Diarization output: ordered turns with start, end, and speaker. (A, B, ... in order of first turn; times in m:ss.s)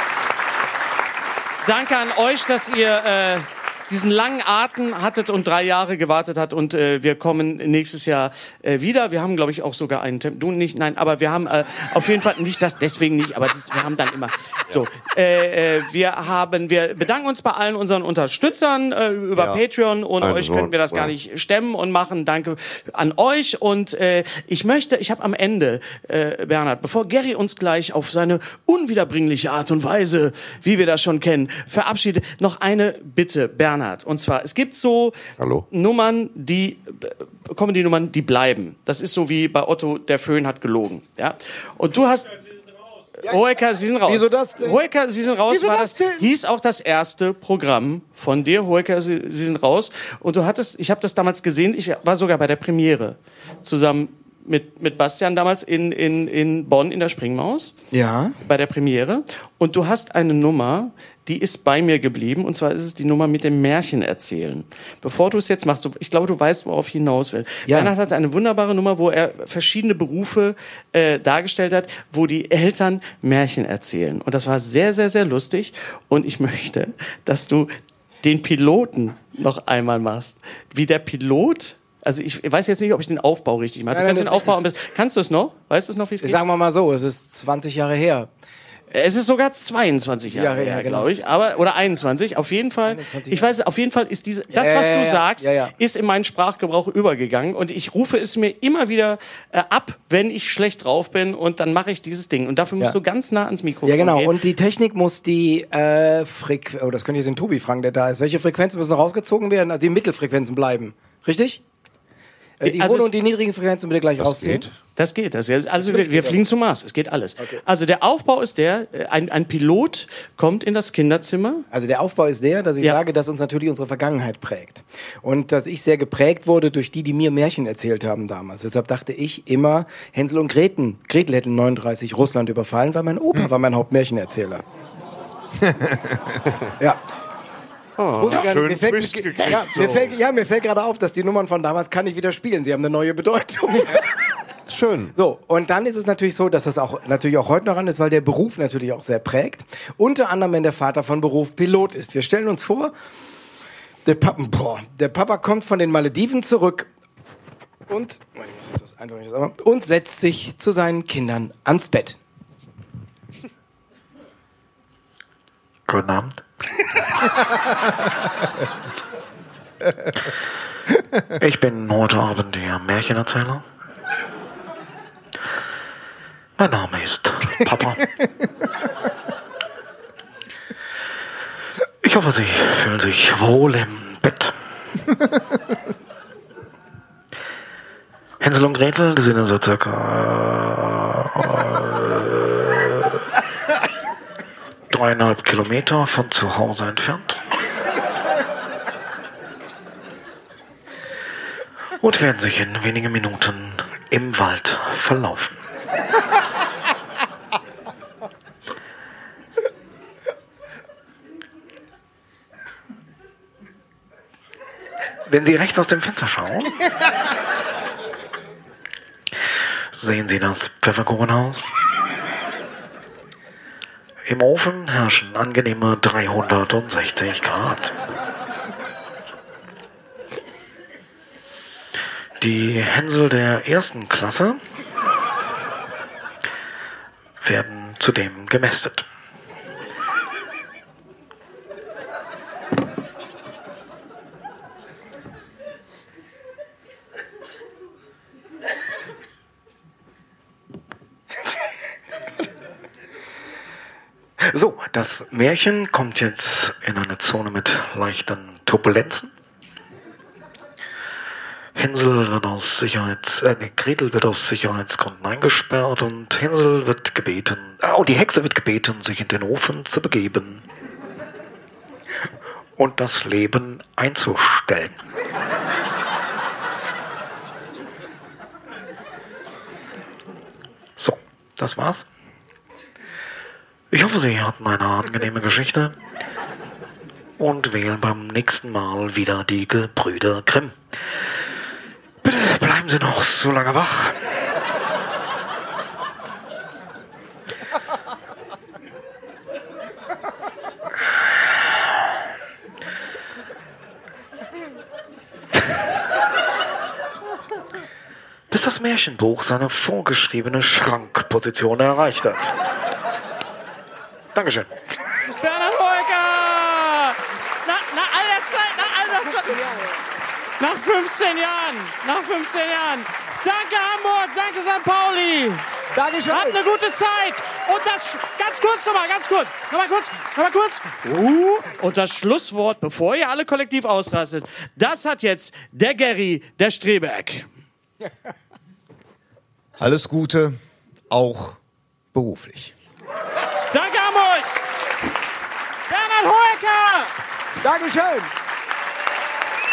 0:01.6-0:35.2 A
0:20.2-0:21.1 B
0:35.4-0:35.6 B
0:35.7-0:42.3 A
0:43.2-0:57.8 A
0:44.0-0:44.8 C
0:45.5-0:46.3 C
0:57.9-0:58.4 C
0:58.4-1:26.4 A
1:07.7-1:07.9 C
1:23.9-1:24.6 C
1:26.2-1:28.3 C
1:28.9-1:44.3 A
1:30.3-1:31.1 C
1:32.8-1:33.5 C
1:34.5-1:35.7 C
1:43.8-1:51.6 C
1:52.6-1:54.7 C
1:52.6-1:53.1 A
1:54.2-1:54.7 B
1:55.0-2:01.6 A
1:55.8-1:56.4 C
2:01.7-2:14.6 C
2:15.6-2:16.2 D
2:18.0-2:20.2 B
2:18.2-2:24.1 C
2:24.7-2:25.1 B
2:25.1-2:32.9 C
2:34.0-2:36.9 C
2:37.9-2:42.2 C
2:45.9-2:46.4 E
2:51.3-2:53.6 E
2:56.6-2:58.1 E
3:02.0-3:04.5 E
3:08.4-3:13.2 E
3:14.9-3:17.4 E
3:22.0-3:25.6 E
3:35.3-3:36.8 E
3:39.9-3:41.7 E
3:44.2-3:48.0 E
3:52.4-3:54.6 E
3:57.4-3:59.0 E
4:14.5-4:14.8 C
4:14.7-4:19.3 E
4:21.7-4:30.6 E
4:32.8-4:35.0 E
4:41.0-4:42.0 E
4:43.9-4:45.9 E
4:47.4-4:50.8 E
4:52.2-4:54.2 E
5:08.5-5:12.6 E
5:14.3-5:14.7 E
5:15.3-5:19.6 A
5:19.3-5:20.0 C
5:20.6-5:25.6 A
5:25.9-5:26.6 C
5:26.3-5:37.5 A
5:39.8-5:40.6 D
5:41.1-5:41.6 D
5:42.1-5:42.7 D
5:43.7-5:44.5 A
5:45.9-5:47.1 A
5:47.6-5:48.3 C